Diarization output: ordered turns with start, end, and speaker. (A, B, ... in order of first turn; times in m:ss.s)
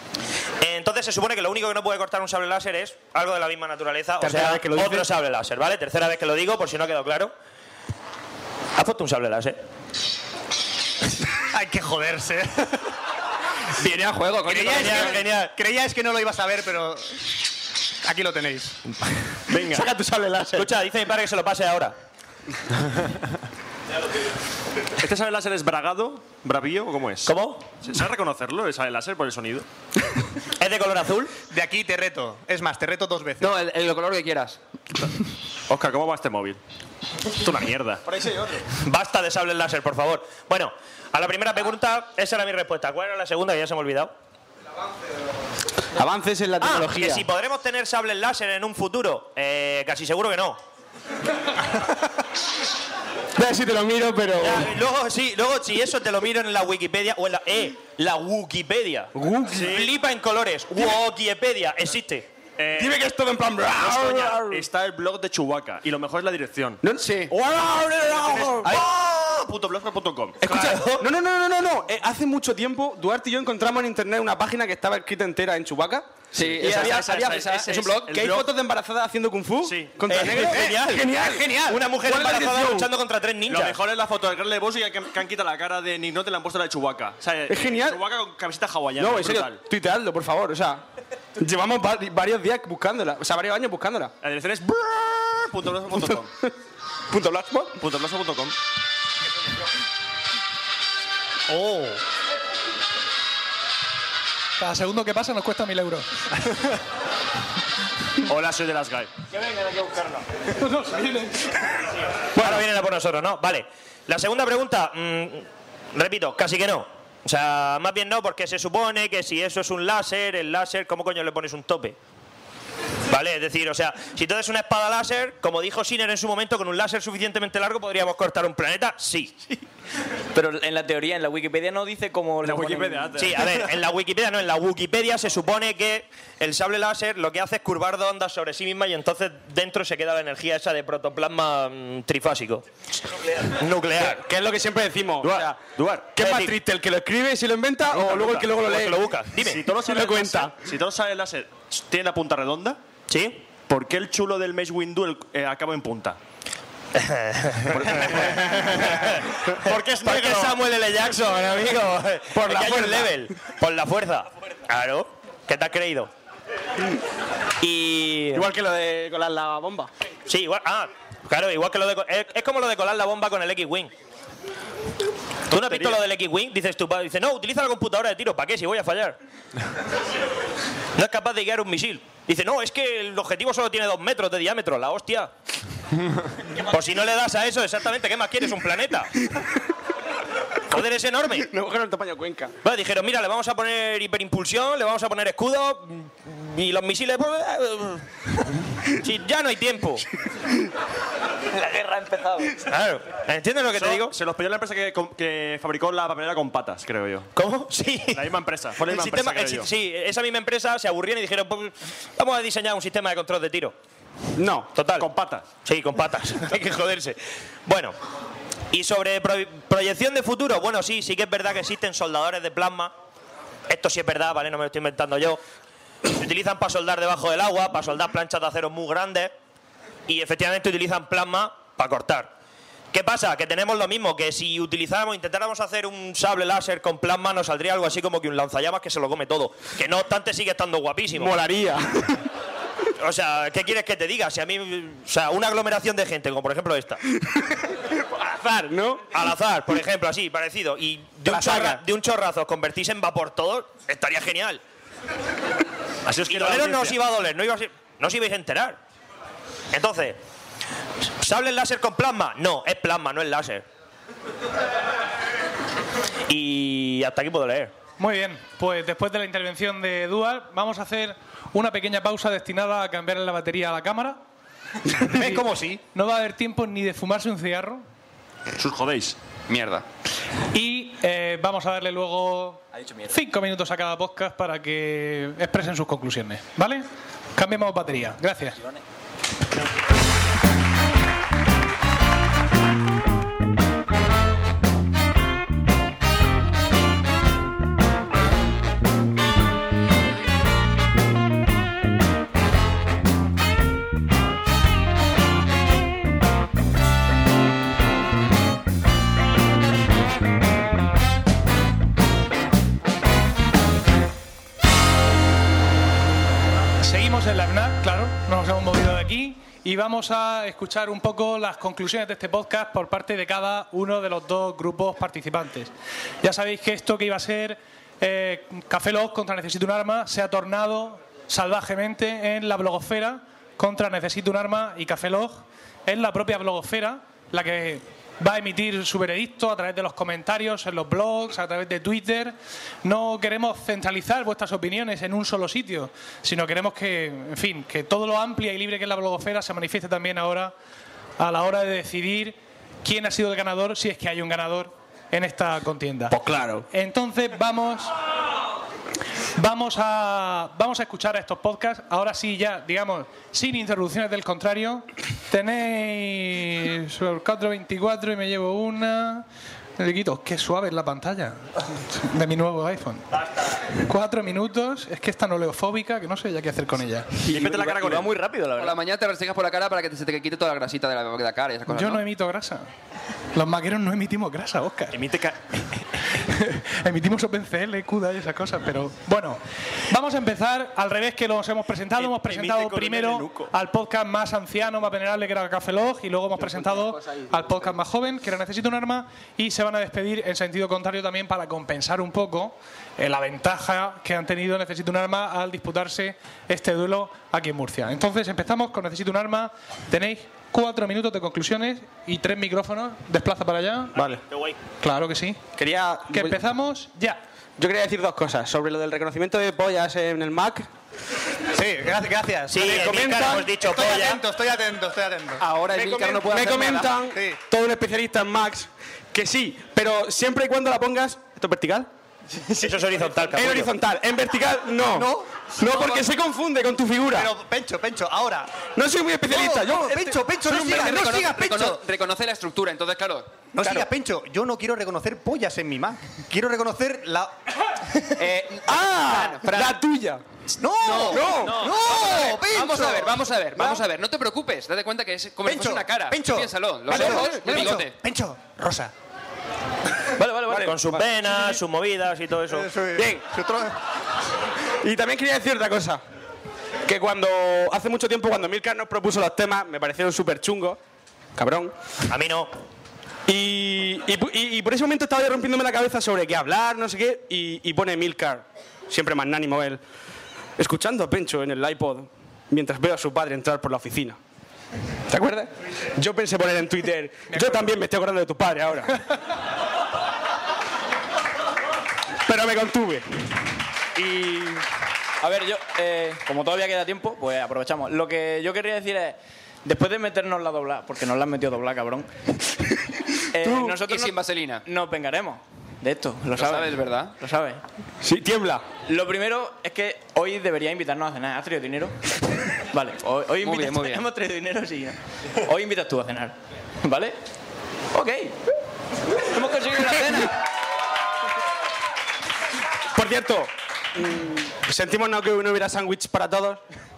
0:00.6-0:07.3 A
0:04.2-0:05.1 B
0:08.7-0:09.6 A
0:11.5-0:12.9 C
0:13.8-0:15.1 D
0:14.5-0:15.5 A
0:14.5-0:17.2 C
0:18.0-0:18.8 C
0:19.5-0:19.9 E
0:19.7-0:20.7 B
0:20.5-0:21.9 A
0:25.0-0:29.6 E
0:27.2-0:27.6 A
0:30.6-0:31.4 A
0:31.5-0:33.6 C
0:33.4-0:34.6 D
0:35.7-0:36.6 E
0:37.3-0:38.0 E
0:38.1-0:38.6 B
0:38.8-0:44.1 A
0:46.0-0:47.2 B
0:46.6-0:50.6 A
0:53.4-0:54.7 B
0:54.4-1:02.3 A
0:59.1-0:59.6 B
0:59.5-0:59.9 E
1:02.6-1:03.0 E
1:02.7-1:04.6 B
1:03.8-1:06.8 E
1:06.8-1:08.8 B
1:07.0-1:07.3 D
1:08.1-1:10.9 E
1:08.6-1:09.4 A
1:10.4-1:22.9 B
1:10.5-1:11.1 A
1:16.3-1:18.1 D
1:16.6-1:18.5 E
1:19.6-1:20.9 E
1:20.1-1:23.8 A
1:23.5-1:29.6 E
1:27.5-1:28.0 B
1:29.0-1:30.8 B
1:31.4-1:34.1 B
1:34.2-1:36.3 E
1:35.9-1:36.5 B
1:37.1-1:37.8 B
1:37.8-1:38.6 E
1:41.5-1:42.0 C
1:44.6-1:46.1 F
1:48.2-1:49.1 E
1:50.6-1:51.4 F
1:52.3-2:02.0 A
1:52.4-1:52.6 B
2:03.1-2:09.6 A
2:10.3-2:13.2 G
2:12.4-2:13.6 E
2:13.2-2:22.7 A
2:23.4-2:24.2 A
2:24.0-2:25.6 B
2:25.2-2:26.2 E
2:26.2-2:26.6 A
2:26.2-2:29.1 B
2:27.9-2:29.6 A
2:29.4-2:32.8 E
2:29.8-2:30.6 B
2:33.1-2:33.5 A
2:33.6-2:36.2 E
2:36.9-2:46.1 A
2:37.7-2:38.6 B
2:39.6-2:40.6 E
2:42.3-2:43.2 B
2:47.6-2:48.5 A
2:48.3-2:49.9 B
2:50.3-2:53.9 A
2:55.5-2:59.2 A
2:55.5-2:56.0 E
3:01.0-3:05.3 A
3:06.5-3:09.1 A
3:10.7-3:11.5 A
3:11.4-3:12.5 B
3:12.6-3:18.1 A
3:19.0-3:20.0 A
3:21.8-3:22.4 G
3:22.6-3:24.2 A
3:23.7-3:27.3 E
3:27.3-3:28.2 A
3:28.1-3:29.7 E
3:28.8-3:33.8 A
3:34.4-3:34.7 B
3:34.7-3:35.1 A
3:35.0-3:35.5 E
3:35.6-3:38.0 A
3:38.7-3:42.9 A
3:43.7-3:45.4 A
3:46.1-3:49.3 A
3:50.1-3:52.3 A
3:52.9-4:01.4 A
4:01.1-4:02.2 B
4:03.0-4:07.0 A
4:08.2-4:09.1 B
4:09.1-4:14.6 A
4:11.2-4:11.8 B
4:16.0-4:17.0 E
4:16.2-4:18.8 A
4:19.7-4:20.2 A
4:21.2-4:23.6 A
4:26.3-4:27.7 A
4:28.0-4:34.2 F
4:35.0-4:37.8 F
4:35.1-4:35.8 C
4:38.6-4:39.2 E
4:39.5-4:39.8 D
4:40.5-4:48.6 F
5:16.8-5:25.7 F
5:26.2-5:50.5 F
5:51.2-5:56.2 F
5:56.1-5:56.6 B
5:56.7-5:57.9 F
5:59.4-6:09.2 F
6:09.8-6:13.1 F
6:13.8-6:17.2 F
6:17.2-6:18.8 G
6:17.3-6:18.1 E
6:18.6-6:22.0 D
6:21.7-6:22.6 F
6:23.3-6:25.0 F
6:24.9-6:25.8 E
6:26.1-6:29.4 F
6:29.9-6:54.0 F
6:32.0-6:33.5 E
6:36.4-6:37.2 B
6:53.9-6:54.2 B
6:54.0-6:54.6 A
6:54.8-6:55.4 F
6:55.6-6:56.4 B
6:56.1-6:57.2 F
6:57.6-7:00.6 B
7:01.5-7:05.4 C
7:02.5-7:04.2 A
7:02.6-7:03.5 B
7:05.4-7:07.0 D
7:05.7-7:11.9 B
7:07.1-7:07.4 C
7:12.5-7:13.7 A
7:12.7-7:17.3 B
7:14.9-7:15.3 C
7:15.6-7:15.9 D
7:17.1-7:18.6 C
7:18.7-7:20.8 B
7:19.2-7:21.8 C
7:20.4-7:23.8 D
7:23.5-7:27.3 C
7:28.4-7:29.4 D
7:28.6-7:30.2 B
7:29.1-7:29.7 C
7:30.6-7:33.8 C
7:30.8-7:38.0 D
7:30.9-7:31.8 B
7:35.4-7:38.9 C
7:36.9-7:37.8 B
7:40.2-7:40.6 G
7:40.5-7:41.6 B
7:40.5-7:42.7 A
7:42.5-7:43.7 C
7:42.9-7:43.3 B
7:44.8-7:46.0 B
7:46.9-7:50.8 B
7:51.4-7:51.7 B
7:52.1-7:52.5 A
7:53.3-7:59.8 B
8:00.6-8:04.2 B
8:05.1-8:09.0 B
8:12.2-8:13.3 B
8:14.0-8:14.6 G
8:15.2-8:22.1 G
8:23.3-8:27.6 G
8:23.4-8:23.8 B
8:23.8-8:24.6 D
8:26.4-8:27.2 D
8:28.0-8:28.6 B
8:28.9-8:32.0 G
8:32.7-8:37.2 G
8:33.4-8:34.0 D
8:37.9-8:38.4 G
8:39.1-8:40.3 G
8:42.9-8:46.6 B